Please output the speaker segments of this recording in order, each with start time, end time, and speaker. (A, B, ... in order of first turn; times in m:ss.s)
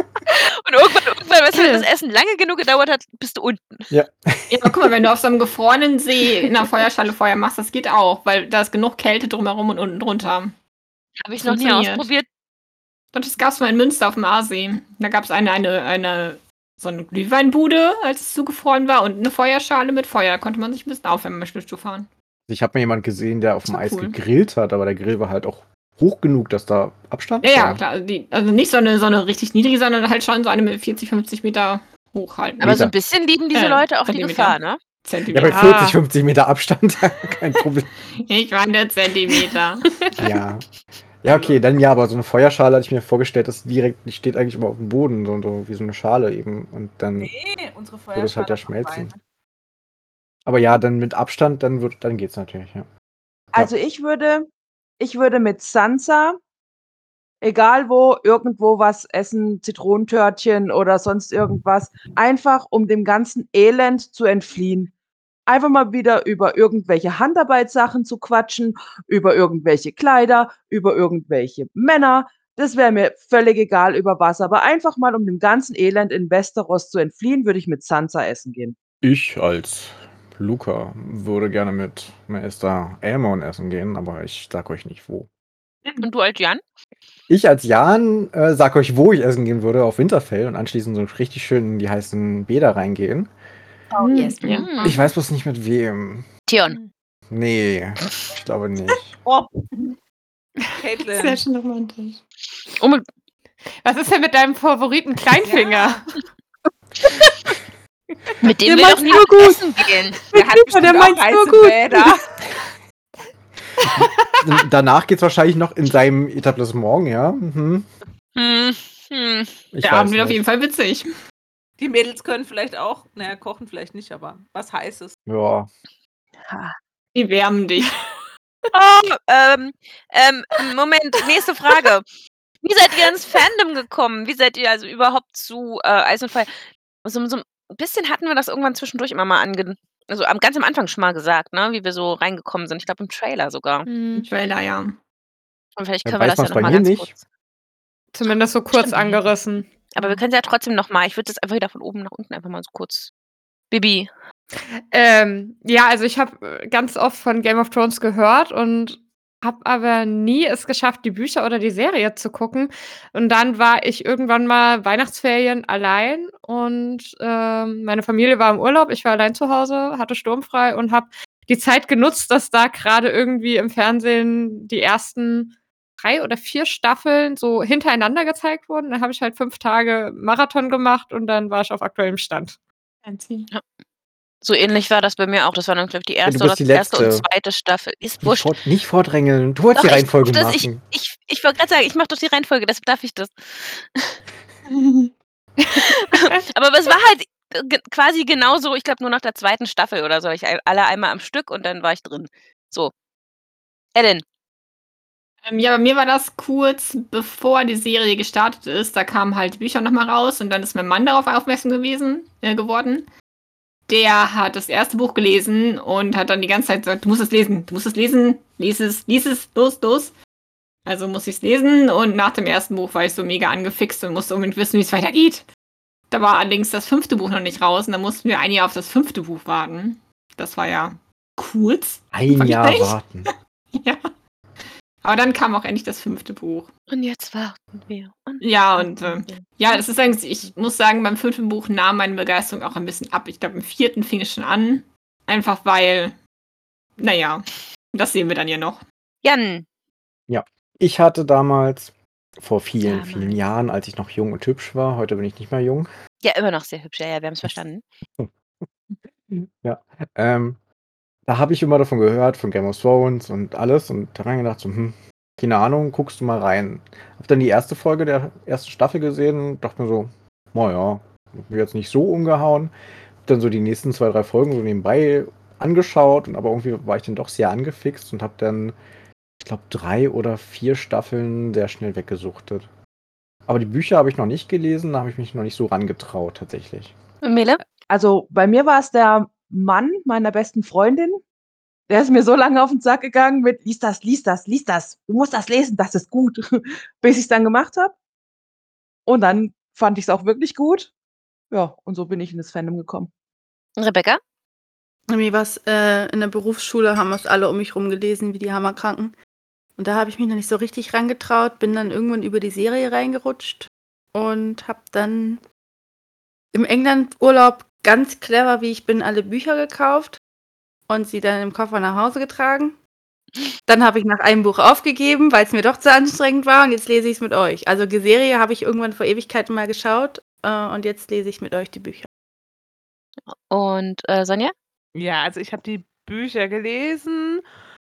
0:00.3-0:03.9 A
0:01.5-0:01.9 B
0:03.9-0:04.7 C
0:04.5-0:10.6 D
0:11.2-0:12.3 A
0:11.4-0:12.1 D
0:13.1-0:22.1 D
0:22.5-0:27.8 C
0:23.7-0:24.2 D
0:27.4-0:32.9 D
0:32.6-0:32.9 C
0:32.6-0:34.8 A
0:33.5-0:35.8 D
0:35.3-0:37.9 C
0:35.5-0:36.0 B
0:38.2-0:39.9 D
0:40.2-0:40.6 C
0:41.2-0:47.3 C
0:41.3-0:41.6 E
0:47.2-0:49.2 E
0:48.2-0:49.1 C
0:50.5-0:52.9 C
0:53.5-0:54.5 F
0:55.0-0:56.4 F
0:57.4-1:04.9 F
1:05.5-1:18.8 F
1:19.0-1:25.3 C
1:26.0-1:26.6 A
1:27.3-1:33.3 C
1:33.9-1:34.4 G
1:34.0-1:34.7 D
1:34.4-1:35.0 A
1:34.8-1:36.3 C
1:36.5-1:36.8 A
1:37.3-1:39.2 C
1:39.2-1:39.9 E
1:40.8-1:41.4 E
1:41.2-1:42.2 D
1:42.8-1:43.0 A
1:43.8-1:46.0 B
1:45.4-1:45.9 E
1:48.4-1:50.2 A
1:48.5-1:49.6 G
1:50.3-1:52.2 G
1:50.3-1:52.2 E
1:53.8-1:57.9 C
1:58.4-1:59.5 A
1:59.7-2:00.4 C
1:59.8-2:01.1 D
2:01.8-2:05.2 E
2:05.3-2:05.7 C
2:07.1-2:08.0 D
2:08.7-2:12.1 A
2:12.6-2:16.5 A
2:17.0-2:23.9 A
2:23.9-2:24.3 B
2:24.2-2:25.0 D
2:25.8-2:27.2 A
2:26.0-2:27.1 C
2:28.1-2:30.2 B
2:28.7-2:29.3 A
2:29.9-2:33.1 A
2:33.7-2:34.1 A
2:34.8-3:02.6 B
3:03.0-3:03.5 D
3:04.4-3:08.5 A
3:06.2-3:07.3 C
3:08.2-3:10.8 C
3:09.8-3:14.2 A
3:14.8-3:15.1 D
3:15.8-3:22.9 A
3:24.0-3:24.2 A
3:25.5-3:33.1 D
3:33.9-3:40.1 D
3:40.9-3:45.5 D
3:46.1-3:54.1 D
3:52.1-3:53.3 C
3:55.0-3:56.7 D
3:56.9-3:59.8 A
3:58.4-4:06.2 D
4:07.0-4:08.8 D
4:09.2-4:09.7 A
4:10.3-4:15.9 C
4:12.8-4:13.4 A
4:16.2-4:17.8 A
4:19.3-4:20.6 C
4:21.3-4:32.7 C
4:33.2-4:38.8 C
4:39.4-4:42.7 C
4:43.5-4:47.0 C
4:47.2-4:47.6 A
4:47.9-4:51.2 F
4:51.9-4:58.0 F
4:59.1-5:00.9 F
5:01.5-5:03.1 F
5:03.8-5:04.2 A
5:05.1-5:09.2 G
5:09.8-5:15.4 G
5:16.5-5:20.2 G
5:20.9-5:22.8 G
5:23.7-5:32.1 G
5:33.3-5:34.5 A
5:35.0-5:37.4 E